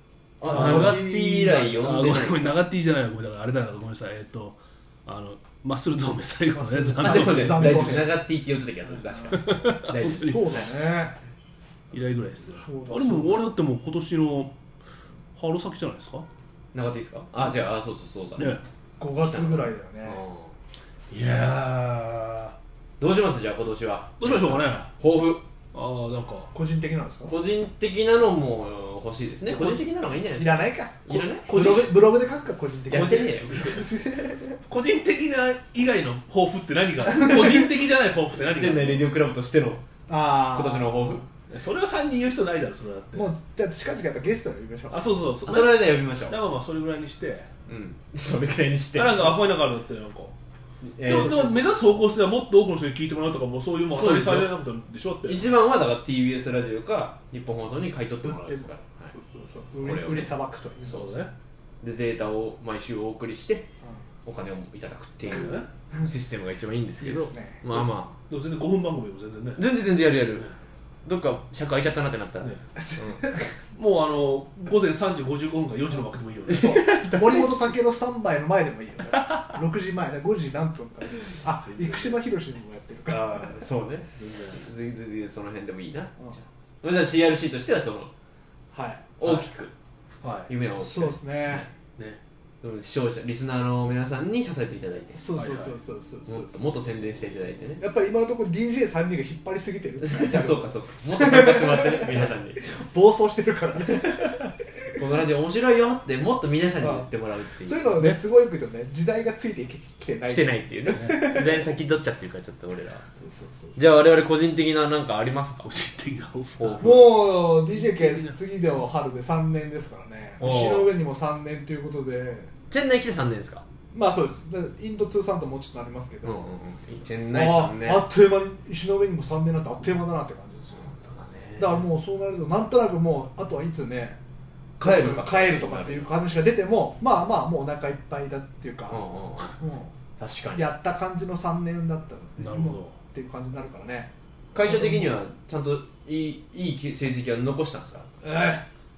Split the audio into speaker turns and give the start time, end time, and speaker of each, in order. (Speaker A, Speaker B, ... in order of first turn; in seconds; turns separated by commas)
Speaker A: 0.4-2.5, Speaker B: 0.5-2.1, Speaker C: 0.5-1.2, Speaker C: 1.8-8.0, Speaker B: 6.5-8.2, Speaker A: 7.0-10.6, Speaker C: 9.3-10.6, Speaker B: 9.9-11.2, Speaker C: 11.9-14.5, Speaker B: 12.6-13.4, Speaker C: 15.3-16.2, Speaker A: 16.7-18.6, Speaker B: 19.0-20.2, Speaker A: 19.2-20.5, Speaker C: 21.1-22.5, Speaker A: 23.0-25.4, Speaker C: 24.2-24.9, Speaker C: 25.7-26.5, Speaker B: 26.5-27.3, Speaker A: 27.3-31.9, Speaker B: 29.5-29.8, Speaker B: 30.4-34.6, Speaker C: 31.4-31.9, Speaker A: 32.9-33.9, Speaker C: 32.9-33.3, Speaker C: 34.7-39.0, Speaker B: 37.1-37.6, Speaker A: 38.5-39.8, Speaker B: 40.1-41.2, Speaker A: 40.5-41.2, Speaker C: 41.5-43.3, Speaker B: 43.1-45.1, Speaker C: 44.9-47.5, Speaker A: 45.5-46.4, Speaker A: 47.7-49.4, Speaker C: 48.9-50.3, Speaker A: 50.8-51.6, Speaker C: 51.0-55.5, Speaker A: 53.9-54.5, Speaker A: 55.2-59.1, Speaker B: 58.2-61.2, Speaker A: 59.8-60.3, Speaker C: 60.8-61.3, Speaker A: 61.8-63.7, Speaker A: 64.2-68.1, Speaker C: 65.3-65.7, Speaker B: 67.0-67.6, Speaker C: 68.3-69.7, Speaker A: 69.6-70.5, Speaker A: 71.0-73.3, Speaker B: 72.8-73.5, Speaker C: 73.8-76.8, Speaker A: 76.5-77.7, Speaker B: 76.6-83.6, Speaker C: 81.7-82.2, Speaker A: 83.1-88.1, Speaker C: 84.2-84.6, Speaker B: 88.7-89.1, Speaker A: 89.2-89.7, Speaker C: 90.2-90.5, Speaker A: 90.5-91.7, Speaker B: 90.8-91.7, Speaker A: 92.6-95.3, Speaker B: 95.1-104.5, Speaker C: 95.3-95.8, Speaker A: 96.3-97.8, Speaker A: 100.0-102.6, Speaker A: 103.9-104.3, Speaker A: 105.0-108.0, Speaker B: 106.8-107.1, Speaker B: 107.6-111.7, Speaker A: 110.3-113.0, Speaker C: 110.9-111.3, Speaker B: 113.2-113.9, Speaker A: 113.8-115.7, Speaker C: 115.6-118.3, Speaker A: 116.6-117.1, Speaker B: 116.8-122.5, Speaker A: 120.4-120.9, Speaker A: 122.7-123.6, Speaker B: 123.9-126.5, Speaker A: 126.2-128.1, Speaker B: 127.3-130.9, Speaker A: 130.9-131.8, Speaker B: 131.6-134.2, Speaker A: 134.8-136.1, Speaker B: 134.8-139.0, Speaker A: 138.9-139.6, Speaker B: 139.5-139.9, Speaker A: 140.2-140.6, Speaker B: 140.5-144.1, Speaker C: 142.4-142.9, Speaker A: 144.5-148.1, Speaker B: 144.6-145.2, Speaker B: 148.2-148.6